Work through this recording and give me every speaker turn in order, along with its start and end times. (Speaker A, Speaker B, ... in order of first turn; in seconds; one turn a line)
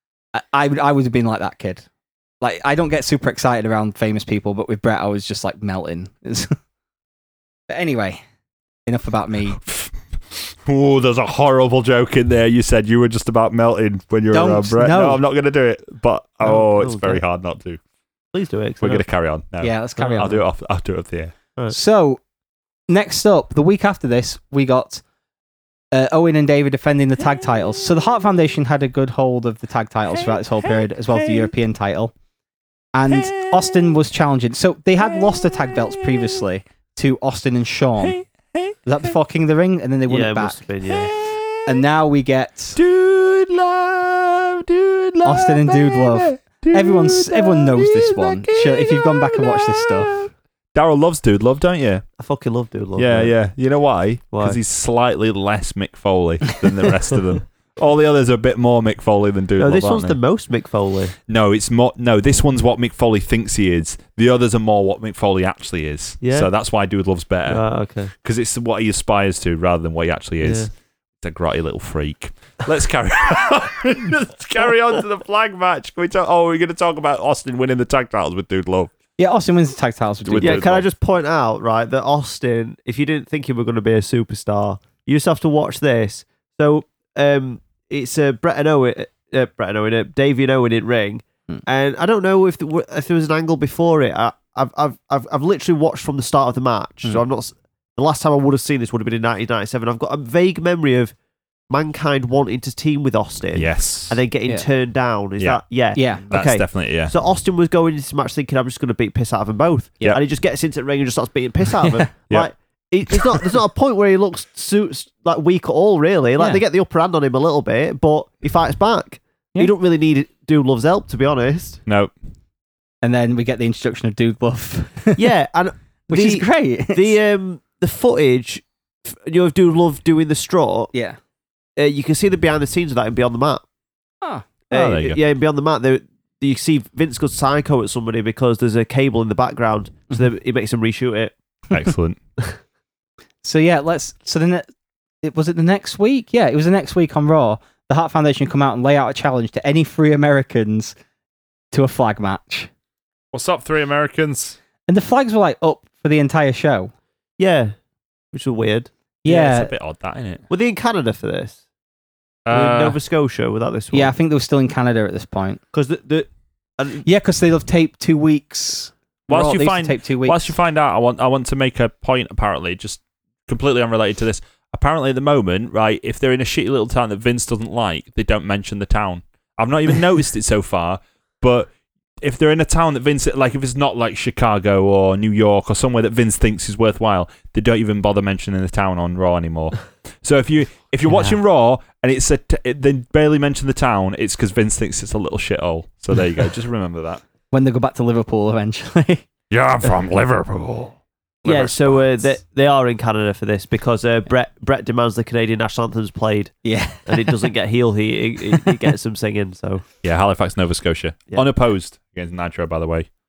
Speaker A: 0.3-1.8
Speaker A: 2.4-6.5
Speaker A: 7.7-8.2
Speaker A: 8.9-9.6
Speaker B: 9.6-17.8
Speaker A: 14.3-15.2
Speaker C: 16.4-17.2
Speaker C: 18.3-19.0
Speaker B: 18.8-21.3
Speaker A: 19.6-20.4
Speaker A: 21.7-22.2
Speaker A: 22.9-25.0
Speaker A: 25.9-32.1
Speaker B: 30.2-31.5
Speaker A: 32.9-38.2
Speaker B: 33.1-33.9
Speaker B: 35.0-36.4
Speaker B: 38.0-39.1
Speaker A: 38.9-40.6
Speaker C: 40.1-41.1
Speaker B: 40.9-41.8
Speaker A: 41.6-42.8
Speaker B: 42.8-52.0
Speaker A: 45.2-50.1
Speaker C: 52.2-53.3
Speaker B: 53.0-60.2
Speaker C: 54.3-54.6
Speaker C: 59.6-61.1
Speaker B: 61.3-67.6
Speaker C: 66.2-66.5
Speaker C: 67.5-68.1
Speaker B: 68.2-78.9
Speaker C: 70.4-70.7
Speaker A: 79.2-80.7
Speaker B: 80.2-80.9
Speaker C: 80.4-101.1
Speaker C: 101.7-121.8
Speaker B: 103.5-104.2
Speaker A: 105.9-106.2
Speaker B: 106.3-107.1
Speaker B: 113.1-113.5
Speaker B: 121.8-122.1
Speaker A: 123.0-125.2
Speaker C: 125.2-130.9
Speaker A: 126.1-127.1
Speaker C: 131.8-133.6
Speaker A: 134.2-134.5
Speaker C: 134.7-141.3
Speaker B: 134.7-135.2
Speaker B: 141.7-142.2
Speaker A: 143.4-144.7
Speaker A: 145.2-150.9
Speaker A: 151.7-152.7
Speaker B: 153.3-154.6
Speaker A: 154.9-156.9
Speaker C: 157.4-157.7
Speaker C: 158.3-158.9
Speaker A: 159.2-159.7
Speaker B: 159.2-160.4
Speaker C: 160.5-161.6
Speaker B: 162.4-163.0
Speaker C: 162.5-164.1
Speaker A: 163.9-165.6
Speaker C: 165.7-167.0
Speaker A: 167.0-170.5
Speaker B: 169.3-181.7
Speaker B: 182.2-197.2
Speaker A: 197.5-199.2
Speaker B: 199.5-202.1
Speaker C: 201.4-206.5
Speaker A: 206.6-207.5
Speaker C: 207.1-209.8
Speaker B: 210.0-213.1